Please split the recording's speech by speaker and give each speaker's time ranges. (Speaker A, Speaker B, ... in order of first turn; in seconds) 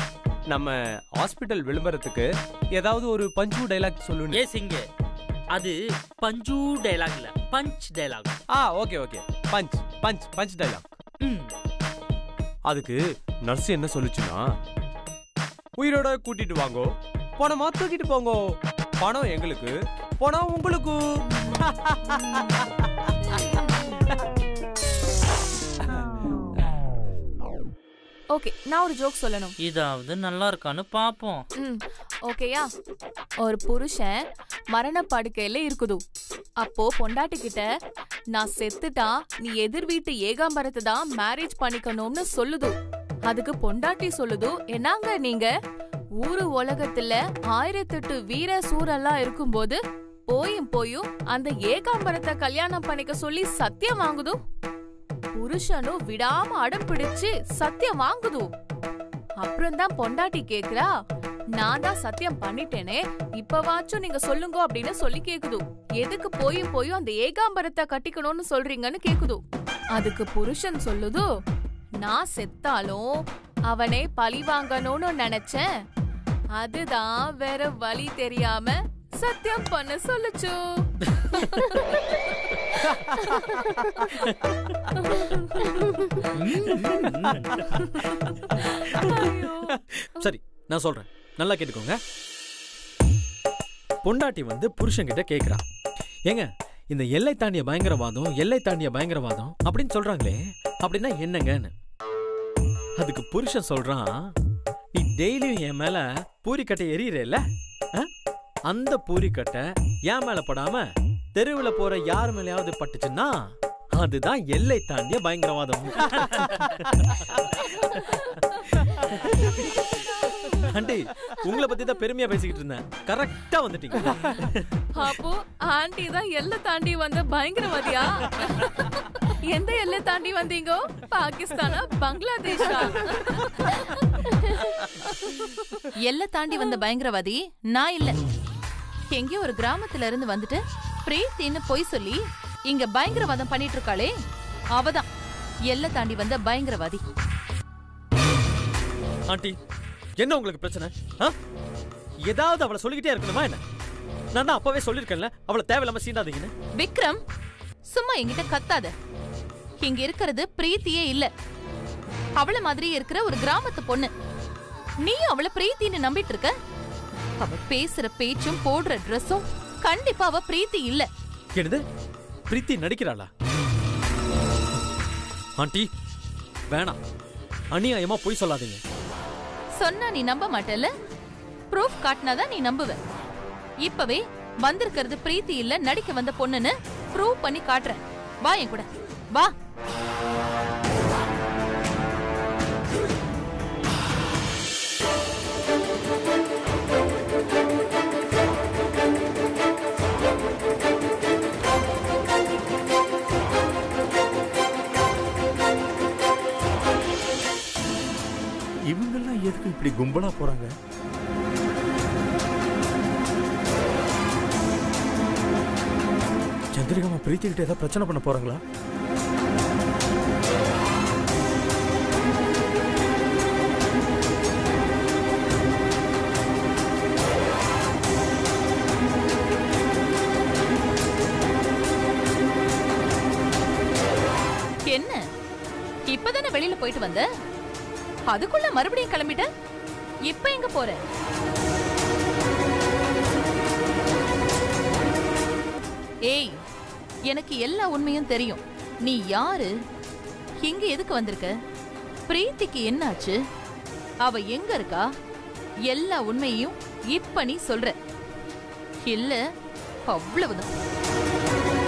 Speaker A: 0.5-4.4, 8.6-10.8, 12.7-14.4, 15.8-18.4, 19.0-21.0
Speaker B: 4.3-4.8, 5.5-8.3, 11.2-11.5, 29.6-31.4
Speaker C: 28.3-29.5, 32.3-32.6, 33.4-34.1, 34.7-36.0, 36.6-37.6, 38.4-42.7, 43.3-45.5, 46.2-49.8, 50.3-54.4, 55.4-58.4, 59.4-60.9, 61.6-69.4, 70.0-71.2, 72.0-73.0, 73.7-75.6, 76.6-80.6, 125.0-128.9, 129.5-133.7
Speaker D: 63.9-64.2, 136.0-138.2, 139.1-144.1, 144.8-145.1, 145.7-147.0, 156.8-157.2, 157.9-158.9, 159.8-161.3, 162.4-164.1, 165.0-166.5, 167.4-171.1, 179.8-180.9, 181.7-183.0, 183.8-189.5, 234.8-235.2, 236.1-237.2, 238.3-239.4, 240.3-241.0, 246.3-246.6, 247.3-249.7, 250.6-251.5, 252.3-253.4, 254.2-255.0, 255.9-257.9, 259.1-259.4, 260.1-260.7
Speaker E: 81.4-81.7, 88.7-89.5, 90.1-92.0, 94.0-95.6, 96.3-101.7, 103.0-104.3, 104.9-107.4, 108.7-118.0, 120.5-124.7, 149.3-149.6, 150.2-151.3, 152.2-153.6, 154.3-156.5, 171.6-171.8, 172.5-173.3, 175.6-175.9, 176.7-177.0, 177.7-178.8
Speaker F: 208.9-210.7, 216.7-218.6